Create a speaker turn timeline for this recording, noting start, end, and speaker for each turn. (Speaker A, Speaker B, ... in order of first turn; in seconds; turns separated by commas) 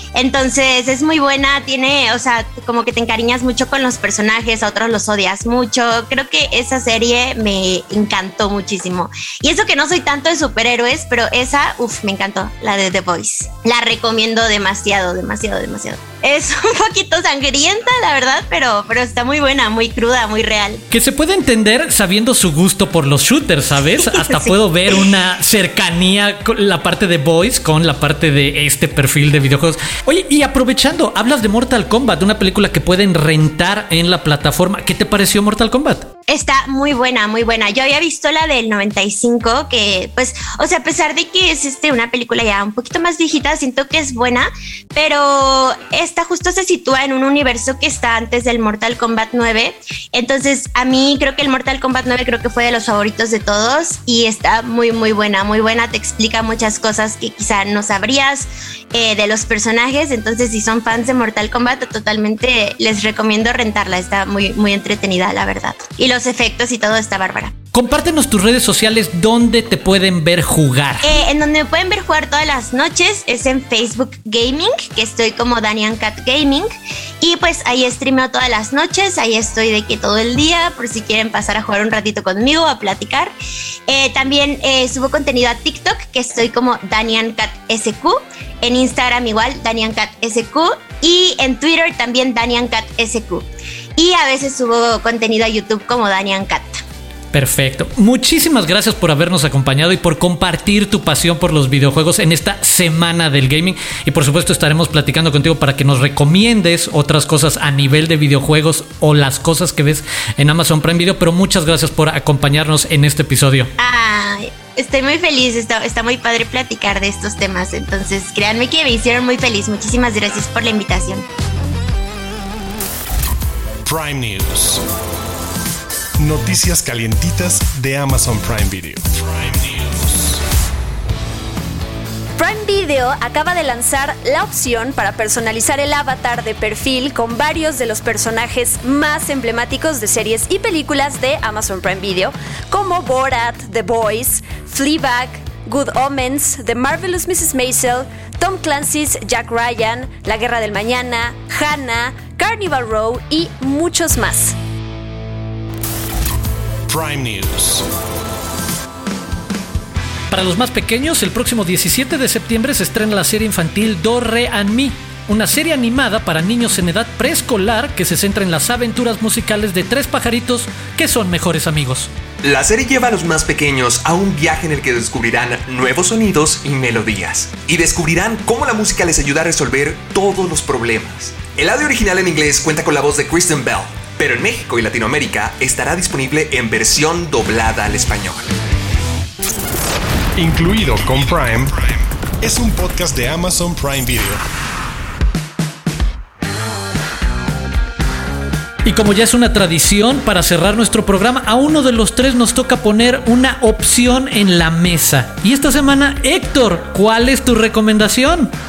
Speaker A: 0.1-20.8, Speaker B: 20.9-36.1, Speaker A: 36.3-67.5, Speaker B: 67.7-71.1, Speaker A: 71.0-76.7, Speaker A: 77.2-83.3, Speaker A: 83.9-93.4, Speaker A: 94.0-96.8, Speaker B: 97.3-113.7, Speaker A: 113.8-121.2, Speaker C: 123.8-124.8, Speaker C: 126.2-130.4, Speaker D: 132.4-154.6, Speaker C: 156.9-157.8, Speaker B: 160.3-172.1, Speaker E: 172.4-188.5, Speaker C: 190.4-191.7, Speaker C: 192.4-194.4, Speaker B: 198.8-208.5